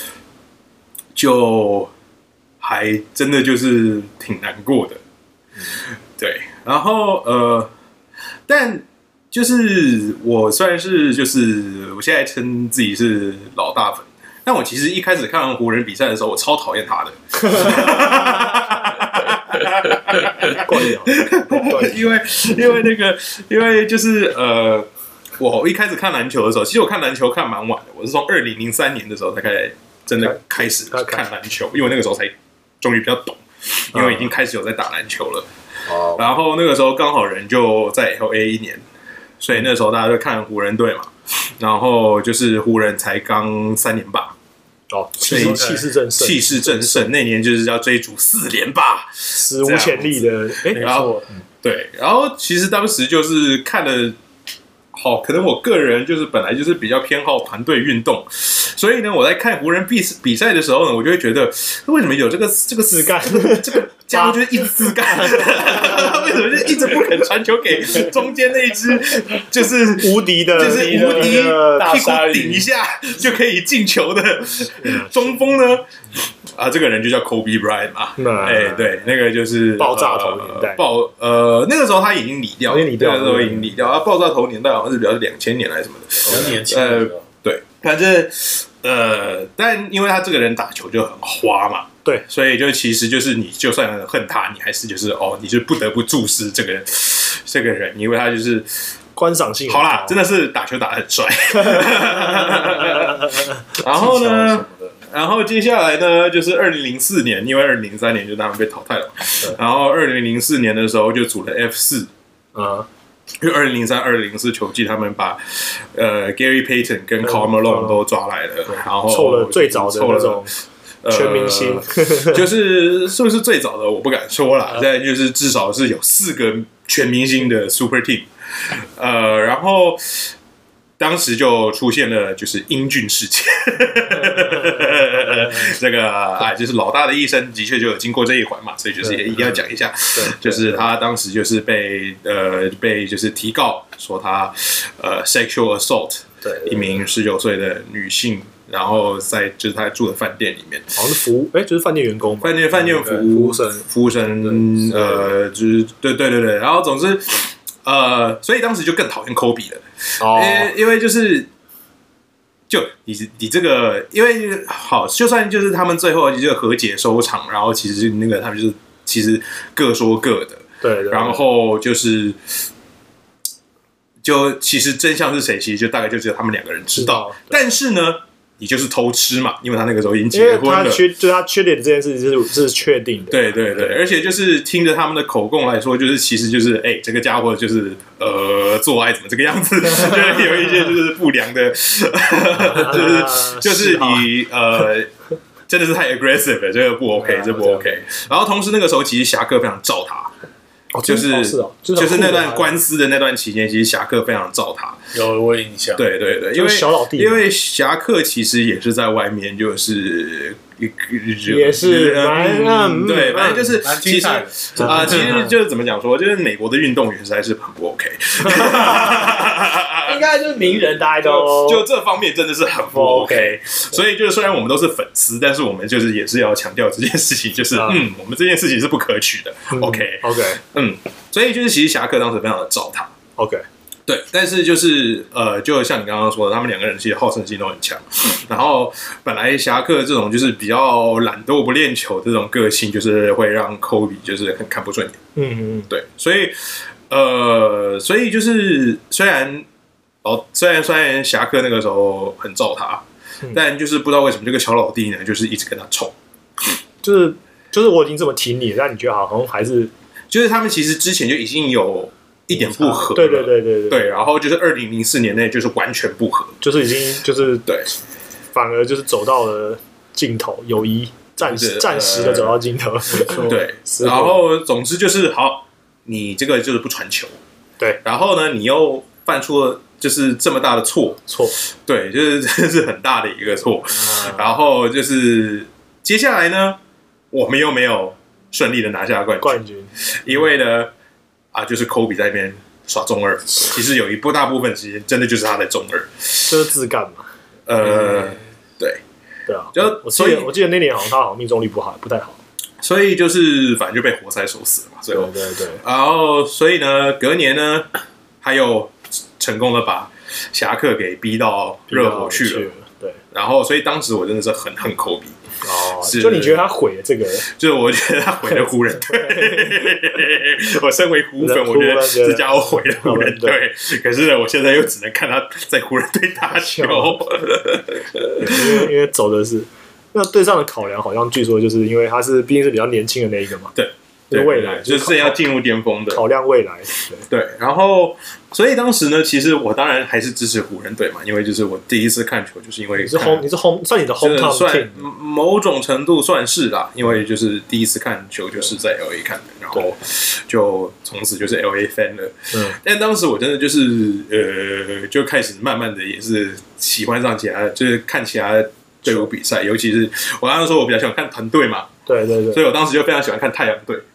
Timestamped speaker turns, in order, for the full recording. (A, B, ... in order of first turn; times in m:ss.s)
0:01.1-0:01.9 A
0:02.6-0:05.0 A
0:05.7-0:07.7 A
0:08.5-0:24.9 A
0:20.4-0:22.3 B
0:25.4-0:35.5 A
0:30.2-0:31.2 B
0:33.9-0:34.2 B
0:35.9-0:36.3 B
0:36.1-0:38.8 A
0:39.4-0:44.4 A
0:44.9-0:47.1 B
0:45.3-0:45.8 C
0:45.3-0:54.2 A
0:49.3-0:50.9 B
0:50.7-0:51.2 C
0:54.9-1:38.9 A
1:03.0-1:04.4 B
1:05.0-1:05.8 B
1:10.0-1:11.9 B
1:10.6-1:12.7 C
1:14.8-1:15.2 B
1:18.2-1:18.9 B
1:19.8-1:20.8 B
1:22.7-1:23.8 B
1:26.3-1:27.2 C
1:39.2-1:40.2 B
1:39.7-1:52.1 A
1:42.4-1:43.3 B
1:44.0-1:44.3 B
1:44.3-1:44.7 C
1:52.5-1:52.9 B
1:53.4-2:10.3 A
1:57.2-1:58.0 B
1:58.7-2:00.5 B
2:01.1-2:02.4 B
2:11.0-2:31.0 A
2:20.1-2:20.8 B
2:26.4-2:26.8 B
2:30.9-2:33.9 B
2:32.4-2:41.5 A
2:40.2-2:40.7 B
2:42.7-2:52.6 A
2:50.8-2:51.4 B
2:54.2-3:01.1 A
2:57.0-2:57.6 B
3:00.3-3:04.0 B
3:03.3-3:15.1 A
3:12.5-3:14.3 B
3:15.7-3:20.3 A
3:17.5-3:17.8 B
3:20.9-3:22.8 B
3:21.0-3:25.0 A
3:25.1-3:26.0 C
3:26.0-3:40.2 A
3:26.5-3:27.5 B
3:31.4-3:33.8 B
3:33.8-3:35.3 C
3:34.8-3:35.5 B
3:38.5-3:39.3 B
3:40.0-3:41.8 B
3:41.2-3:53.1 A
3:42.9-3:43.6 B
3:47.7-3:48.0 B
3:49.7-3:50.6 B
3:53.4-3:53.6 B
3:54.1-4:05.2 A
4:05.4-4:05.9 B
4:05.9-4:09.7 A
4:10.2-4:16.1 A
4:17.0-4:19.9 B
4:20.3-4:26.6 A
4:22.5-4:24.0 B
4:26.6-4:27.8 B
4:28.5-4:34.4 B
4:31.4-4:32.6 A
4:33.2-4:37.4 A
4:38.0-4:46.8 A
4:41.3-4:41.6 B
4:44.0-4:44.5 B
4:47.3-4:50.9 A
4:49.4-4:49.9 B
4:51.5-4:56.6 A
4:56.5-4:57.3 B
4:57.7-4:59.0 A
4:59.5-5:02.4 B
4:59.7-5:00.5 A
5:02.8-5:07.9 A
5:05.1-5:05.8 B
5:08.4-5:12.7 A
5:11.9-5:13.2 B
5:13.3-5:15.4 A
5:15.6-5:17.5 B
5:16.0-5:16.6 A
5:17.4-5:28.9 A
5:18.5-5:19.7 B
5:21.4-5:23.6 B
5:26.5-5:27.2 B
5:28.4-5:33.7 B
5:33.7-5:36.2 A
5:34.3-5:35.4 B
5:36.1-5:37.2 B
5:37.3-5:43.5 A
5:43.0-5:45.0 B
5:44.2-6:01.9 A
5:52.5-5:52.8 B
6:02.0-6:02.6 B
6:02.5-6:04.0 A